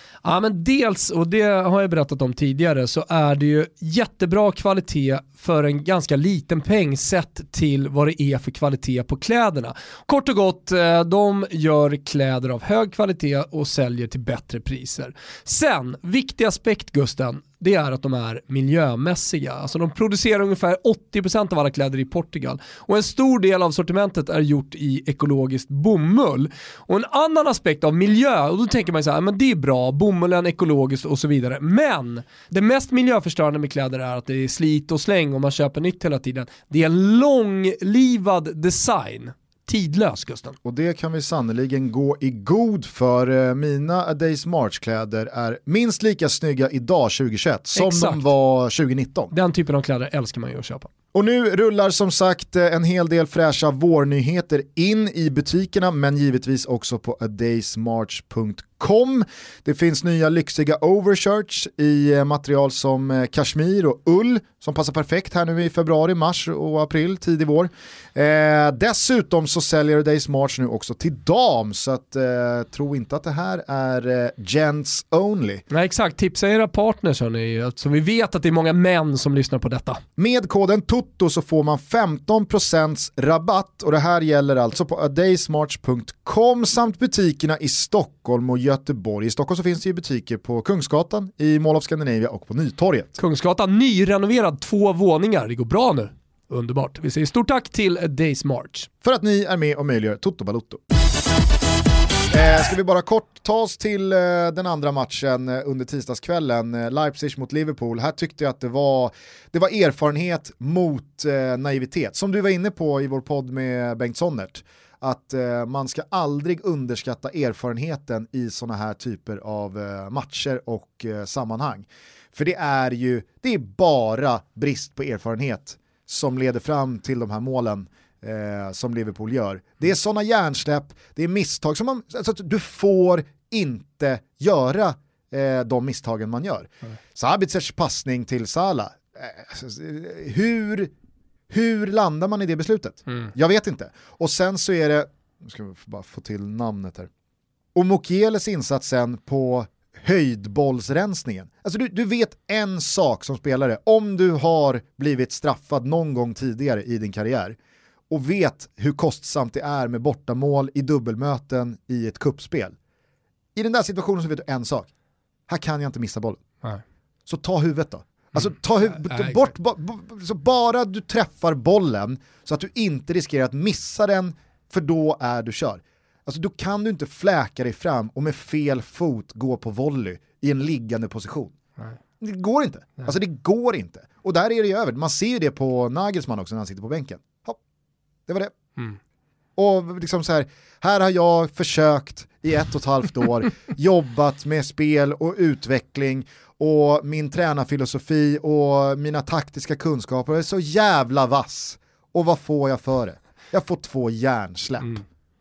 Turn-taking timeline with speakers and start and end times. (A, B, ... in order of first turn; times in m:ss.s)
0:00.2-0:40.6 A
0:40.6-0:49.3 B
0:47.7-0:48.2 A
0:49.3-0:50.9 A
0:51.1-1:15.6 B
1:15.7-1:20.0 A
1:20.2-1:33.2 B
1:33.2-1:38.9 A
1:39.0-1:40.8 B
1:42.3-2:20.9 B
2:21.5-2:27.1 B
2:27.7-2:37.6 B
2:38.1-2:42.7 B
2:43.5-2:44.9 B
2:45.5-2:46.4 B
2:47.2-3:01.5 B
2:49.0-2:49.4 A
3:02.2-3:07.6 B
3:08.3-3:08.5 B
3:09.6-3:25.0 B